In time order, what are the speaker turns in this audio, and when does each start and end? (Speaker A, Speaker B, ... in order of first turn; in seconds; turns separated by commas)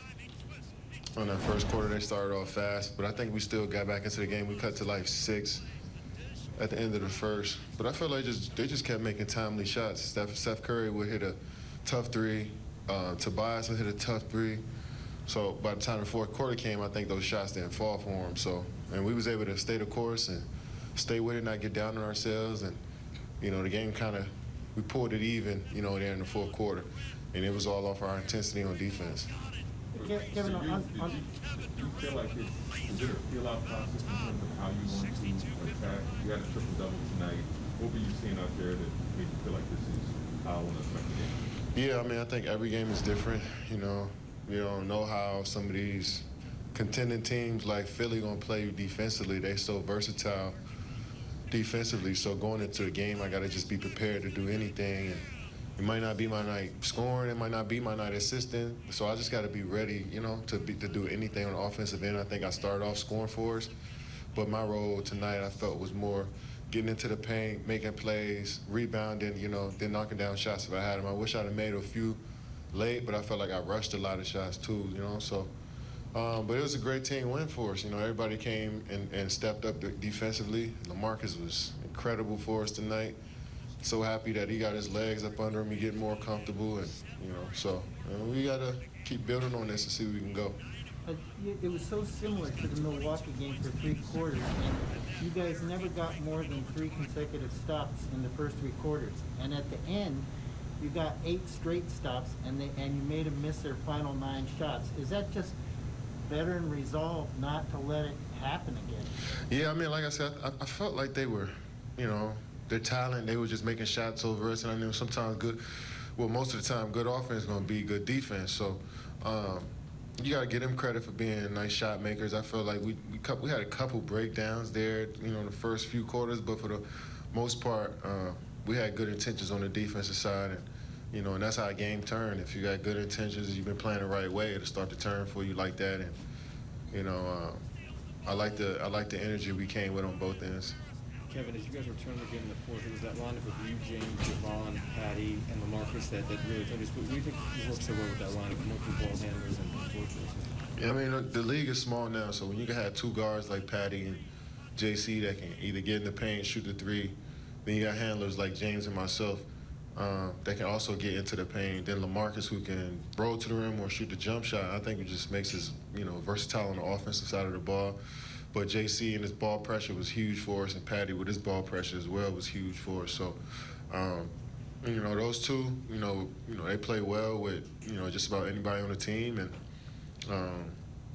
Speaker A: 1.2-5.7, Speaker A: 6.6-14.7, Speaker A: 15.3-22.8, Speaker A: 23.4-29.3, Speaker B: 29.9-31.2, Speaker C: 30.0-41.4, Speaker A: 41.7-50.6, Speaker A: 51.5-63.7, Speaker A: 64.3-72.2, Speaker A: 72.7-75.5, Speaker A: 76.1-83.2, Speaker A: 83.8-90.6, Speaker B: 91.0-100.3, Speaker B: 100.8-105.5, Speaker B: 106.2-109.1, Speaker A: 109.5-115.6, Speaker A: 116.2-136.2, Speaker A: 136.9-137.7, Speaker A: 138.2-140.8, Speaker D: 141.3-150.5, Speaker A: 150.8-154.2, Speaker A: 154.8-168.0, Speaker A: 168.5-174.3, Speaker A: 174.8-179.6, Speaker A: 180.3-180.8